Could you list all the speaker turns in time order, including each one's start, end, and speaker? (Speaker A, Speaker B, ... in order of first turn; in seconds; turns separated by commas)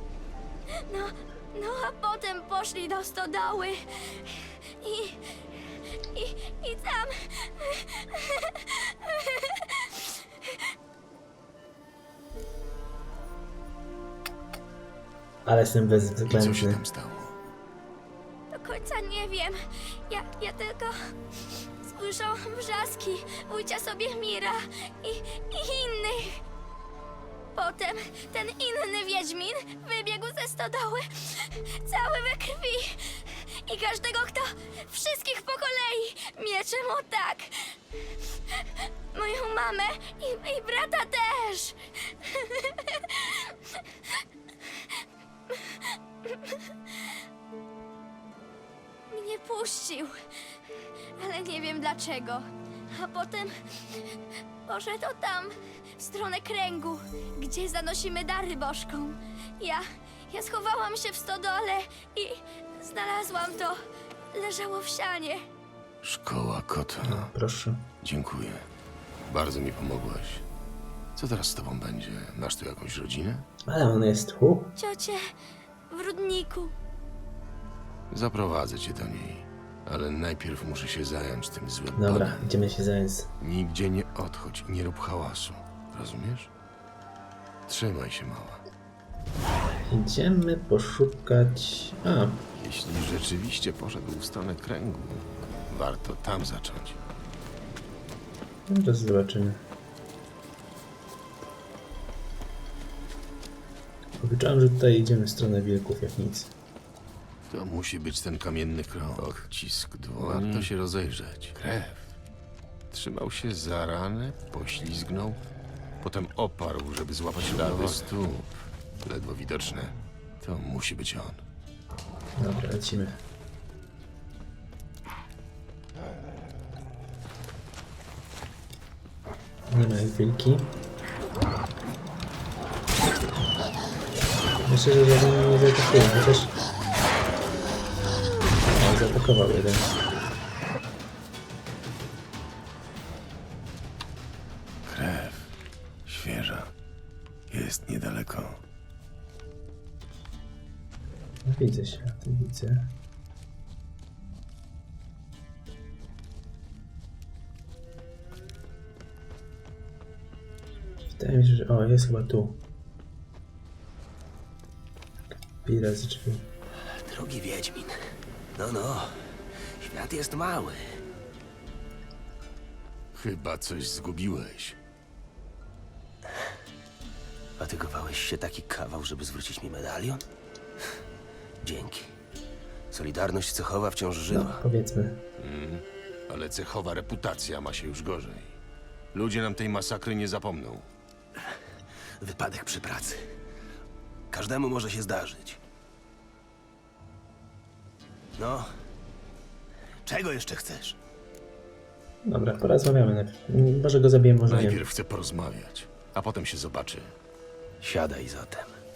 Speaker A: 0.9-5.3, Speaker A: 6.1-10.6, Speaker B: 15.4-16.8, Speaker C: 16.2-17.4, Speaker A: 18.5-21.0, Speaker A: 21.8-26.4, Speaker A: 27.6-37.8, Speaker A: 38.5-44.9, Speaker A: 45.5-47.1, Speaker A: 49.1-50.1, Speaker A: 51.2-54.1, Speaker A: 54.7-63.8, Speaker A: 64.3-65.4, Speaker C: 66.0-67.3, Speaker B: 67.0-67.8, Speaker C: 68.0-68.7, Speaker C: 69.3-70.5, Speaker C: 71.1-73.5, Speaker B: 73.7-74.8, Speaker A: 74.8-75.3, Speaker A: 75.9-76.7, Speaker C: 78.1-82.5, Speaker B: 82.0-83.3, Speaker C: 83.4-86.5, Speaker C: 87.7-88.6, Speaker B: 89.9-92.5, Speaker C: 92.6-97.0, Speaker B: 98.7-99.6, Speaker B: 104.2-106.5, Speaker C: 107.5-112.1, Speaker C: 112.9-115.4, Speaker C: 116.0-121.4, Speaker B: 122.3-123.2, Speaker B: 129.7-130.8, Speaker B: 134.6-136.6, Speaker B: 138.7-139.9, Speaker C: 144.8-145.5, Speaker C: 146.1-146.7, Speaker C: 147.5-148.6, Speaker B: 151.4-152.9, Speaker B: 161.1-162.6, Speaker B: 165.6-166.5, Speaker D: 166.8-168.0, Speaker D: 168.6-171.0, Speaker C: 173.1-174.8, Speaker D: 177.6-180.2, Speaker D: 181.6-182.1, Speaker D: 182.9-184.6, Speaker B: 184.3-185.2, Speaker C: 185.4-188.6, Speaker C: 189.1-190.9, Speaker D: 192.2-193.2, Speaker D: 194.3-195.6, Speaker D: 198.4-198.7, Speaker D: 200.1-201.0, Speaker B: 202.2-204.8, Speaker C: 204.5-207.2, Speaker D: 207.8-208.8